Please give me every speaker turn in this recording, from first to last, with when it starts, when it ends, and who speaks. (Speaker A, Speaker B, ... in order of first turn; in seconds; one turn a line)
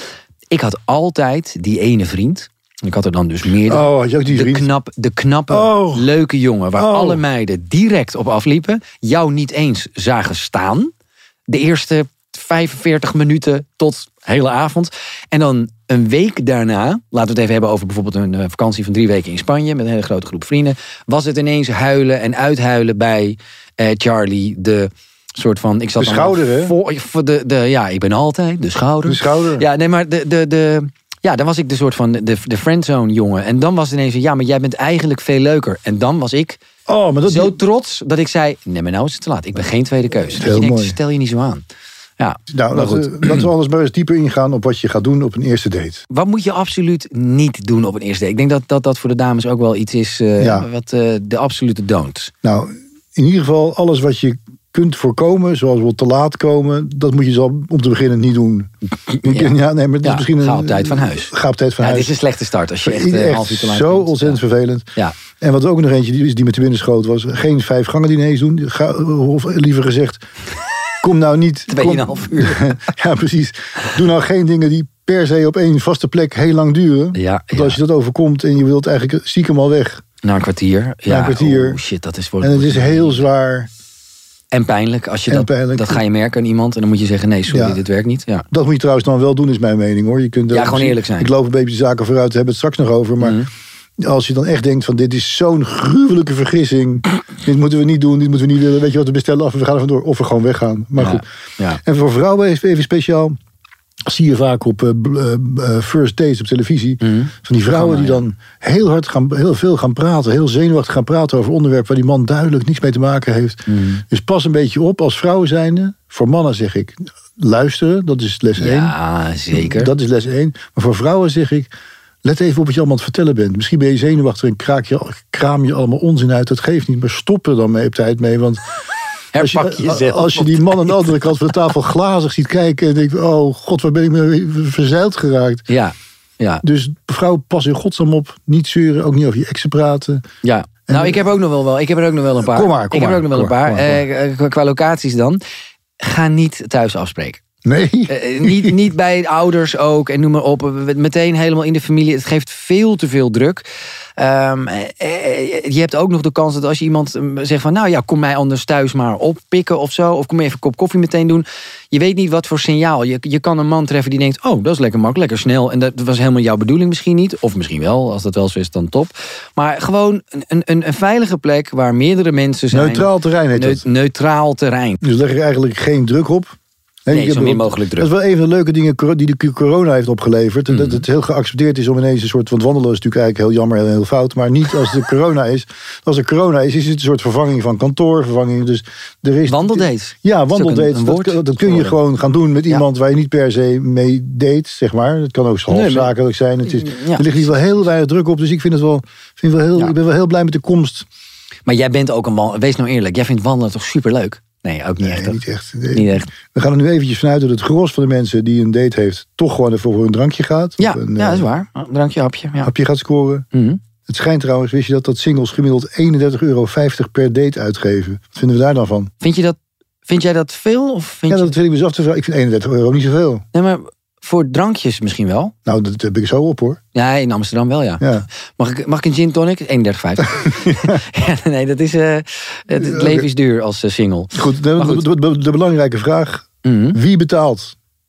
Speaker A: 0.5-10.9
Speaker B: 3.6-4.7
Speaker B: 5.5-6.1
Speaker B: 6.8-7.2
Speaker A: 11.5-36.6
Speaker B: 26.0-26.7
Speaker B: 29.0-29.6
Speaker B: 36.9-37.5
Speaker A: 37.3-41.6
Speaker B: 40.3-41.0
Speaker A: 42.2-43.4
Speaker B: 42.5-46.0
Speaker A: 46.1-52.3
Speaker B: 50.4-50.7
Speaker B: 52.4-62.1
Speaker A: 59.1-64.4
Speaker B: 62.8-70.2
Speaker B: 71.0-80.0
Speaker A: 71.7-72.7
Speaker A: 77.1-77.8
Speaker A: 80.2-83.2
Speaker B: 81.1-81.8
Speaker B: 82.4-83.7
Speaker A: 84.5-88.5
Speaker B: 85.3-86.0
Speaker B: 87.5-87.8
Speaker B: 88.5-93.4
Speaker A: 90.5-91.3
Speaker A: 93.2-93.5
Speaker B: 94.0-101.2
Speaker A: 101.0-101.8
Speaker B: 101.8-103.4
Speaker B: 104.0-119.0
Speaker A: 107.0-108.2
Speaker A: 113.7-114.0
Speaker A: 118.6-119.9
Speaker B: 119.5-121.7
Speaker B: 122.2-128.6
Speaker A: 129.3-131.1
Speaker B: 129.4-135.7
Speaker A: 135.7-136.6
Speaker B: 136.6-140.2
Speaker A: 140.4-145.4
Speaker B: 140.9-141.2
Speaker B: 142.4-144.0
Speaker A: 146.0-147.4
Speaker B: 147.6-148.8
Speaker A: 148.1-153.6
Speaker A: 154.2-175.0
Speaker B: 172.7-173.8
Speaker B: 175.0-201.1
Speaker A: 177.1-178.1
Speaker A: 180.7-181.0
Speaker A: 189.4-191.9
Speaker A: 195.7-196.1
Speaker A: 196.7-197.4
Speaker A: 201.7-205.4
Speaker B: 205.0-211.4
Speaker A: 205.9-206.3
Speaker A: 210.8-212.7
Speaker B: 212.6-213.4
Speaker A: 213.5-213.8
Speaker B: 214.1-219.1
Speaker A: 219.2-221.5
Speaker B: 221.3-223.4
Speaker A: 223.5-225.5
Speaker B: 225.7-226.8
Speaker A: 226.9-228.1
Speaker B: 228.0-228.2
Speaker A: 228.6-235.0
Speaker B: 230.4-231.0
Speaker B: 232.8-233.3
Speaker B: 234.3-237.7
Speaker A: 236.6-237.0